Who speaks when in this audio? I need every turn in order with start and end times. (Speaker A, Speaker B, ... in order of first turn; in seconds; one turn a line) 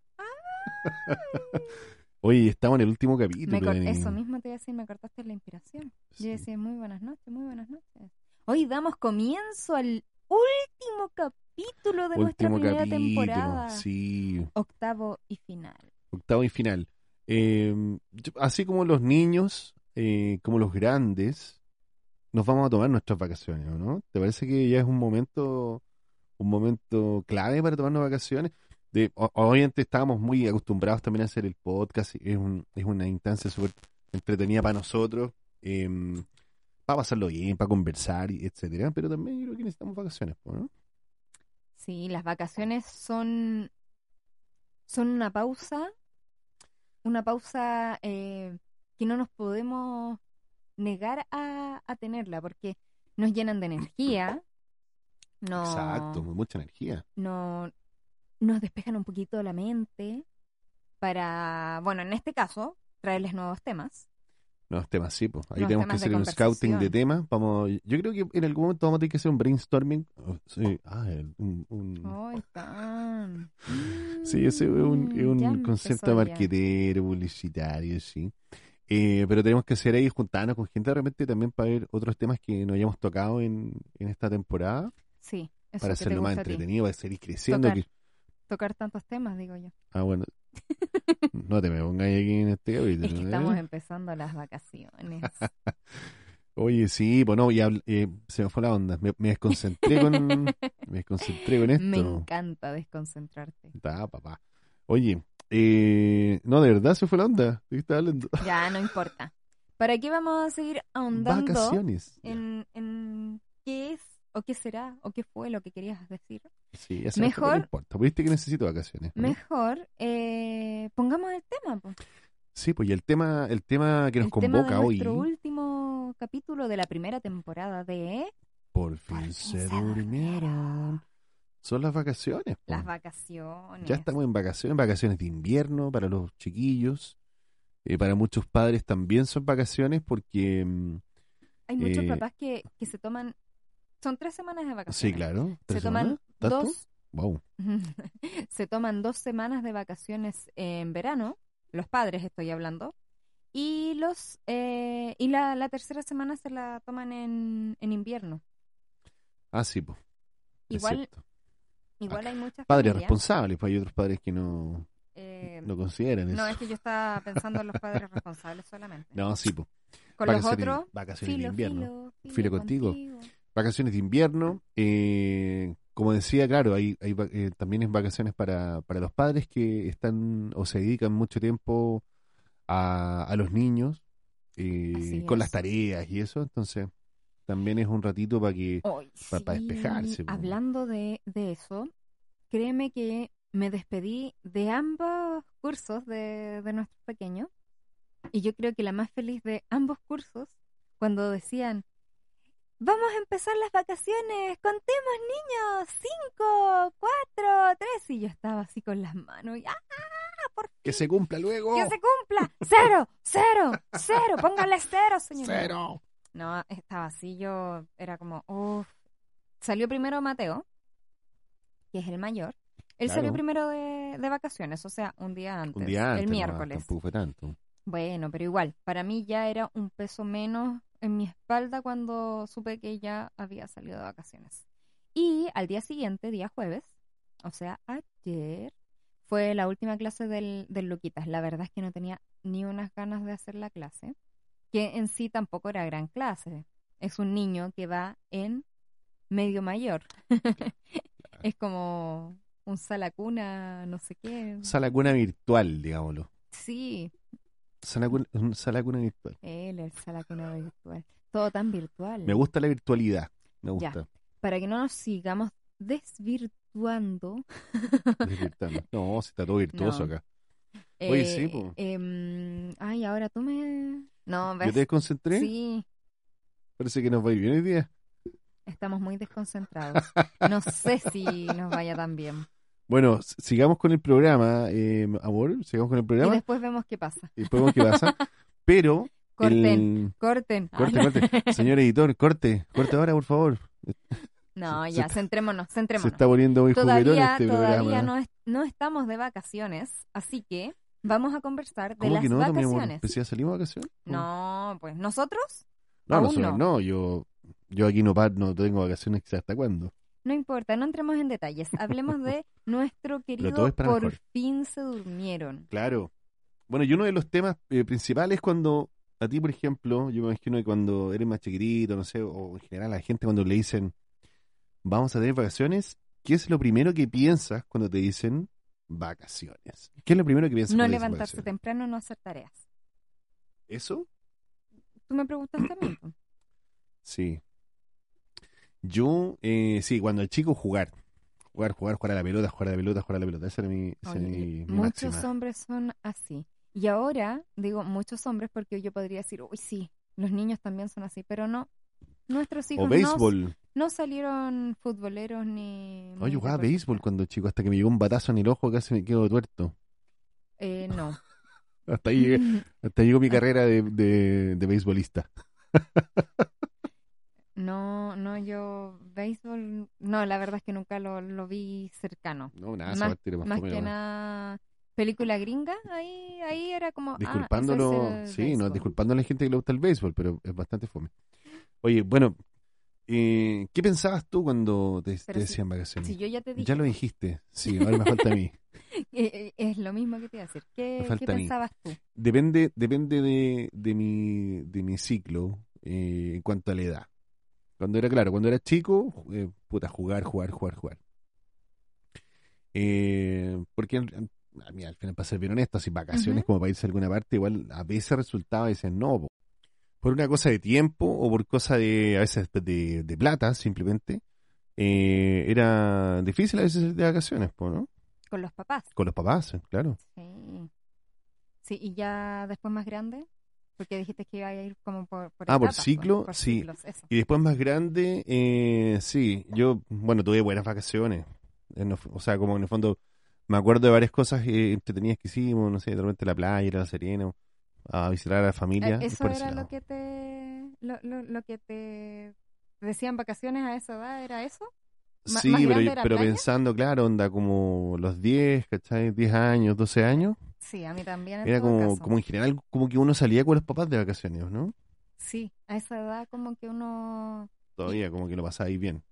Speaker A: 0.2-1.8
Speaker B: 0.8-1.6
Speaker B: 2.2-4.2
Speaker A: 3.4-13.8
Speaker B: 6.1-6.4
Speaker B: 12.1-14.5
Speaker A: 14.5-15.9
Speaker B: 16.1-21.6
Speaker B: 22.3-25.8
Speaker B: 26.4-36.2
Speaker B: 36.9-40.7
Speaker A: 41.8-43.7
Speaker A: 44.9-45.9
Speaker A: 47.0-50.2
Speaker A: 50.8-54.4
Speaker A: 55.4-56.2
Speaker B: 55.5-57.0
Speaker A: 57.2-57.7
Speaker A: 58.4-60.2
Speaker A: 61.0-64.1
Speaker B: 64.7-72.2
Speaker A: 65.5-66.9
Speaker A: 72.0-76.5
Speaker B: 74.2-78.3
Speaker B: 78.9-84.9
Speaker A: 85.2-86.6
Speaker B: 85.8-87.8
Speaker A: 87.5-87.8
Speaker A: 88.5-89.7
Speaker B: 89.9-90.3
Speaker A: 90.9-91.3
Speaker B: 91.3-93.6
Speaker A: 93.0-95.4
Speaker B: 95.2-102.2
Speaker A: 99.5-100.7
Speaker A: 101.2-103.7
Speaker B: 103.7-108.9
Speaker A: 108.4-116.5
Speaker B: 111.1-112.4
Speaker B: 116.7-119.4
Speaker A: 117.1-117.7
Speaker A: 119.2-122.0
Speaker B: 122.5-125.3
Speaker A: 124.2-128.3
Speaker B: 128.7-131.0
Speaker A: 129.1-130.8
Speaker B: 131.6-132.9
Speaker A: 132.7-134.1
Speaker B: 133.8-137.2
Speaker B: 137.8-141.0
Speaker A: 141.7-143.3
Speaker B: 141.8-142.2
Speaker A: 144.0-146.9
Speaker B: 144.9-147.4
Speaker A: 147.6-152.9
Speaker A: 153.5-158.4
Speaker B: 159.5-160.0
Speaker B: 160.7-161.2
Speaker A: 160.7-161.1
Speaker A: 162.0-163.2
Speaker B: 162.1-164.9
Speaker A: 165.1-165.7
Speaker B: 165.6-166.6
Speaker A: 166.3-169.2
Speaker B: 167.3-167.8
Speaker B: 169.1-169.7
Speaker A: 170.2-173.3
Speaker B: 170.2-173.0
Speaker B: 173.5-182.0
Speaker B: 182.7-184.0
Speaker B: 184.6-186.9
Speaker A: 184.9-185.6
Speaker B: 187.5-190.5
Speaker A: 188.8-191.9
Speaker A: 192.5-197.5
Speaker A: 198.3-201.8
Speaker A: 202.8-211.0
Speaker B: 210.8-211.9
Speaker A: 211.7-215.7
Speaker B: 215.4-216.0
Speaker A: 216.3-218.9
Speaker A: 219.6-220.6
Speaker A: 221.9-226.9
Speaker B: 223.1-223.4
Speaker B: 225.7-227.6
Speaker A: 227.8-234.6
Speaker A: 235.1-236.9
Speaker A: 237.4-238.7
Speaker A: 239.2-244.1
Speaker A: 244.7-248.6
Speaker A: 249.3-254.7
Speaker B: 254.6-256.3
Speaker A: 256.5-257.1
Speaker B: 257.8-259.4
Speaker A: 259.4-262.4
Speaker B: 262.2-264.1
Speaker A: 263.8-268.3
Speaker B: 268.2-270.2
Speaker A: 269.7-270.1
Speaker A: 271.0-275.9
Speaker B: 271.1-271.7
Speaker B: 274.6-275.5
Speaker B: 276.8-277.9
Speaker A: 278.7-282.5
Speaker B: 282.9-286.4
Speaker A: 286.2-288.2
Speaker B: 287.4-290.1
Speaker A: 289.3-291.7
Speaker B: 290.7-295.2
Speaker A: 294.6-303.1
Speaker B: 296.0-298.1
Speaker B: 302.0-304.2
Speaker A: 304.0-306.6
Speaker B: 306.1-309.9
Speaker A: 310.2-315.7
Speaker B: 313.4-314.2
Speaker B: 315.7-316.1
Speaker B: 316.7-323.9
Speaker B: 324.8-331.5
Speaker A: 330.7-332.6
Speaker B: 333.7-334.1
Speaker A: 335.1-336.1
Speaker B: 337.0-337.4
Speaker B: 338.8-340.9
Speaker B: 341.5-345.3
Speaker A: 344.0-351.7
Speaker A: 352.3-357.0
Speaker B: 352.8-353.5
Speaker B: 356.2-359.7
Speaker A: 360.6-361.2
Speaker B: 361.9-366.2
Speaker A: 362.2-362.6
Speaker A: 367.6-378.9
Speaker B: 372.5-373.9
Speaker B: 377.2-381.1
Speaker B: 381.8-382.4
Speaker B: 383.1-388.6
Speaker A: 385.3-386.9
Speaker A: 387.6-388.4
Speaker A: 388.9-392.0
Speaker B: 391.0-391.5
Speaker B: 392.1-397.1
Speaker B: 397.8-401.0
Speaker B: 402.7-409.3
Speaker A: 406.1-406.5
Speaker B: 410.0-414.2
Speaker B: 414.8-417.9
Speaker A: 418.3-418.9
Speaker B: 418.9-420.0
Speaker A: 420.0-420.7
Speaker A: 421.6-423.3
Speaker A: 423.8-427.1
Speaker B: 425.5-437.3
Speaker B: 437.9-439.7
Speaker A: 438.8-444.7
Speaker B: 445.2-450.4
Speaker A: 445.3-446.4
Speaker A: 450.6-452.1
Speaker B: 451.4-454.7
Speaker A: 455.2-458.0
Speaker B: 457.8-459.0